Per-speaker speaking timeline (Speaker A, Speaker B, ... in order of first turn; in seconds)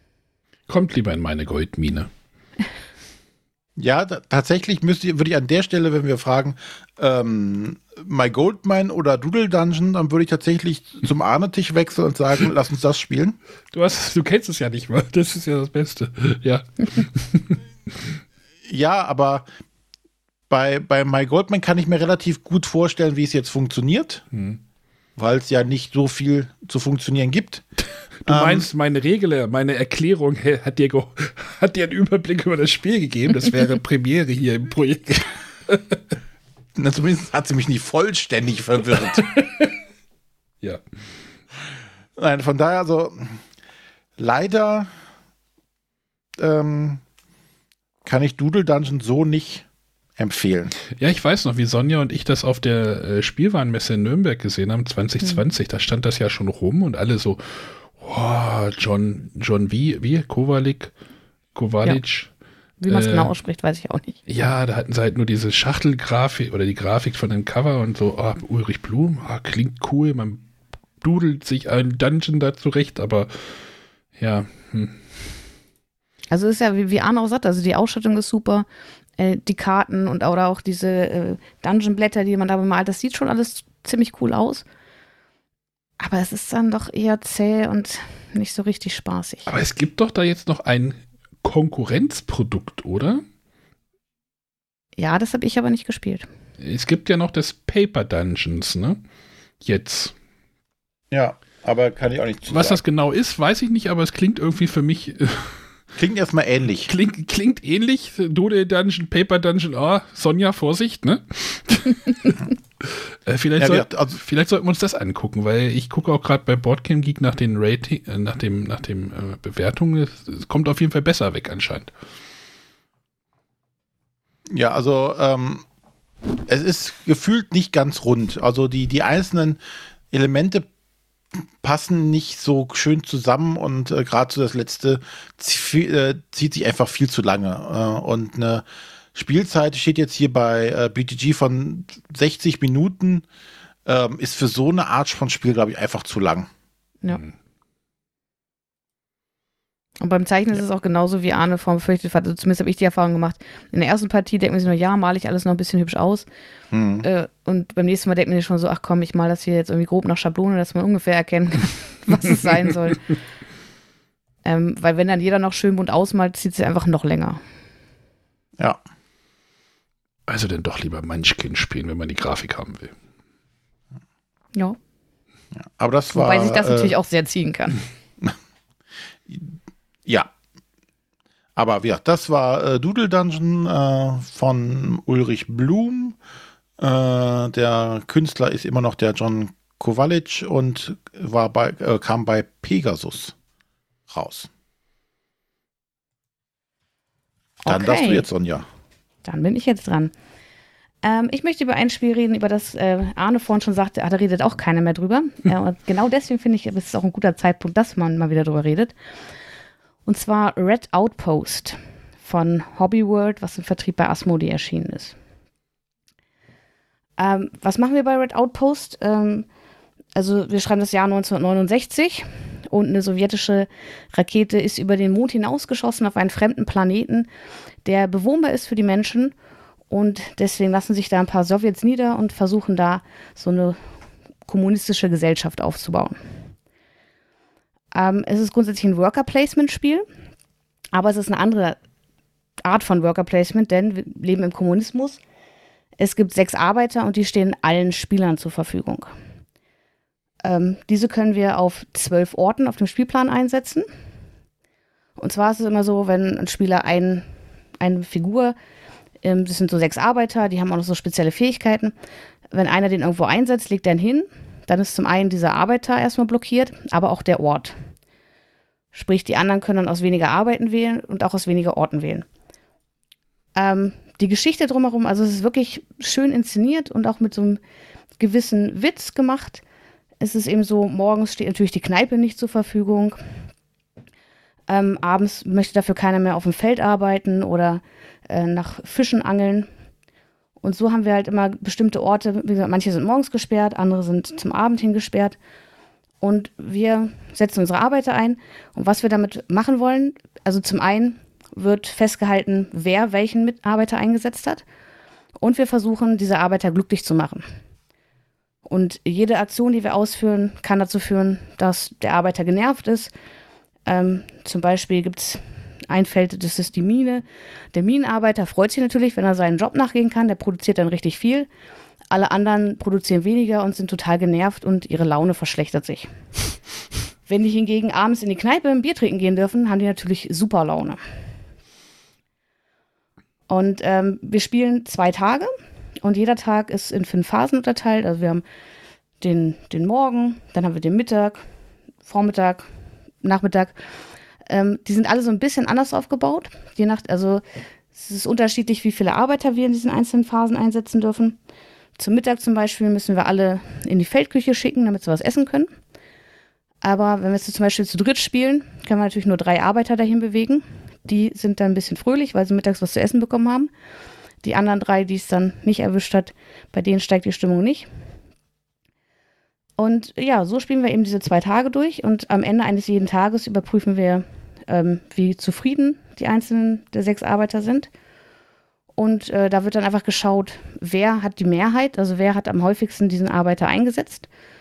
Speaker A: 0.7-2.1, 13.7-17.6, 24.3-24.6, 28.2-36.1, 39.0-39.8, 50.9-60.9, 61.5-62.3, 62.9-63.3, 64.3-70.4, 71.0-73.3, 74.2-75.0, 89.5-93.2, 96.6-99.0, 99.6-100.1, 102.5-105.7, 106.9-121.9, 170.3-172.9
Speaker B: 3.8-13.4, 18.7-19.5, 20.5-24.2, 25.2-27.6, 28.3-28.7, 36.8-39.2, 42.2-43.4, 44.2-44.9, 46.4-47.0, 48.0-49.7, 50.2-50.7, 101.1-102.8, 106.0-106.9, 113.6-114.2, 124.5-125.6, 126.5-129.6, 130.1-130.7, 131.6-143.2, 143.9-146.5, 156.7-157.1, 175.7-176.9, 179.3-179.6, 180.1-180.3, 181.6-186.2, 186.8-193.3, 194.1-194.5, 197.7-198.7
Speaker C: 62.8-64.2, 76.3-78.7, 79.2-84.6, 86.0-89.5, 95.0-96.3, 150.0-156.3, 157.0-163.0, 164.4-167.4, 176.1-177.8, 197.7-198.2, 199.2-200.1, 201.0-208.9, 210.1-215.1, 217.2-219.5, 220.2-227.3, 227.8-229.3, 229.9-233.8, 234.5-236.2, 237.9-240.1, 240.9-241.8, 242.7-245.2, 246.0-249.1, 250.4-253.9, 255.2-257.2, 257.8-258.6, 259.2-261.9, 262.5-267.8, 268.9-272.2, 273.6-277.6, 278.2-279.6, 280.2-283.2, 284.7-289.7, 290.6-295.4, 296.2-304.6, 305.4-307.4, 308.7-313.1, 313.9-321.5, 322.1-326.1, 327.3-331.0, 333.5-335.5, 336.0-338.4, 339.2-341.4, 342.1-342.7, 343.2-343.8, 344.5-347.4, 347.9-351.4, 352.0-355.7, 356.8-363.7, 364.4-367.9, 369.8-377.9, 379.0-384.3